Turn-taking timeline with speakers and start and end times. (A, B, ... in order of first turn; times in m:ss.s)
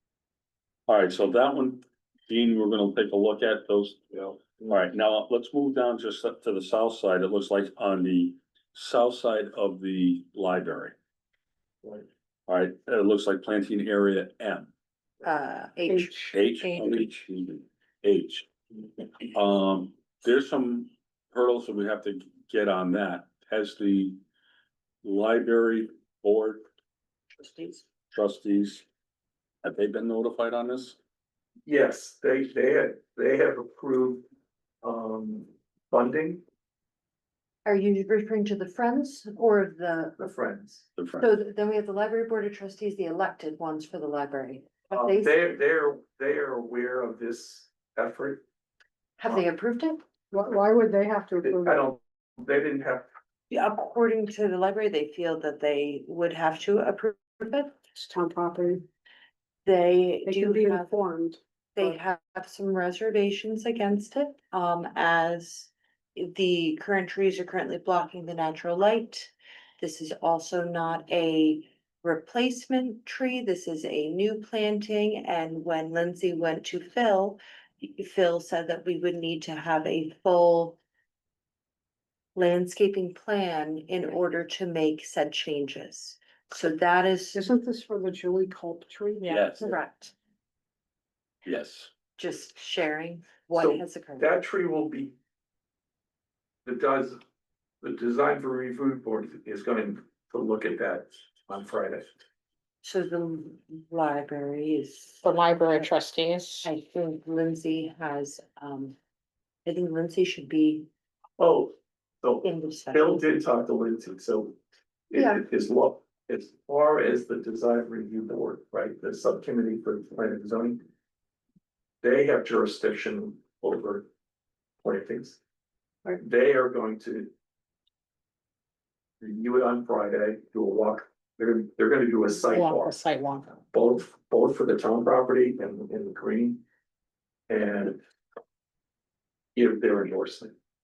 0:00.9-0:10.9 A
0:12.5-0:14.7 A
0:15.2-0:17.1 B
0:15.9-0:16.3 C
0:16.3-0:18.5 A
0:19.3-0:24.2 A
0:25.0-0:26.6 A
0:27.4-0:27.8 B
0:28.1-0:28.8 A
0:29.6-0:31.0 A
0:31.7-0:34.2 D
0:34.8-0:36.4 D
0:37.6-0:40.3 B
0:40.2-0:40.8 D
0:41.0-0:41.3 A
0:41.2-0:45.6 B
0:44.9-0:48.4 D
0:49.2-0:50.0 B
0:50.3-0:51.9 C
0:51.6-0:53.1 D
0:53.5-0:57.8 B
0:58.0-0:58.8 C
0:59.6-1:00.9 B
1:00.3-1:02.0 C
1:01.8-1:20.8 B
1:22.4-1:27.4 B
1:27.4-1:29.6 C
1:29.3-1:29.7 A
1:29.6-1:30.1 B
1:31.4-1:31.9 A
1:32.2-1:34.3 B
1:33.6-1:35.2 D
1:36.6-1:37.2 D
1:37.8-1:42.1 D
1:42.8-1:45.2 B
1:45.2-1:46.7 E
1:46.6-1:49.0 B
1:49.7-1:50.9 B
1:51.4-1:54.6 D
1:52.4-1:53.2 B
1:55.1-2:00.8 D
1:55.2-1:55.4 B
2:02.0-2:04.1 D
2:04.8-2:05.4 D
2:06.0-2:07.3 D
2:09.2-2:12.9 D
2:12.4-2:13.6 E
2:13.7-2:16.6 D
2:17.5-2:18.0 D
2:19.6-2:20.5 D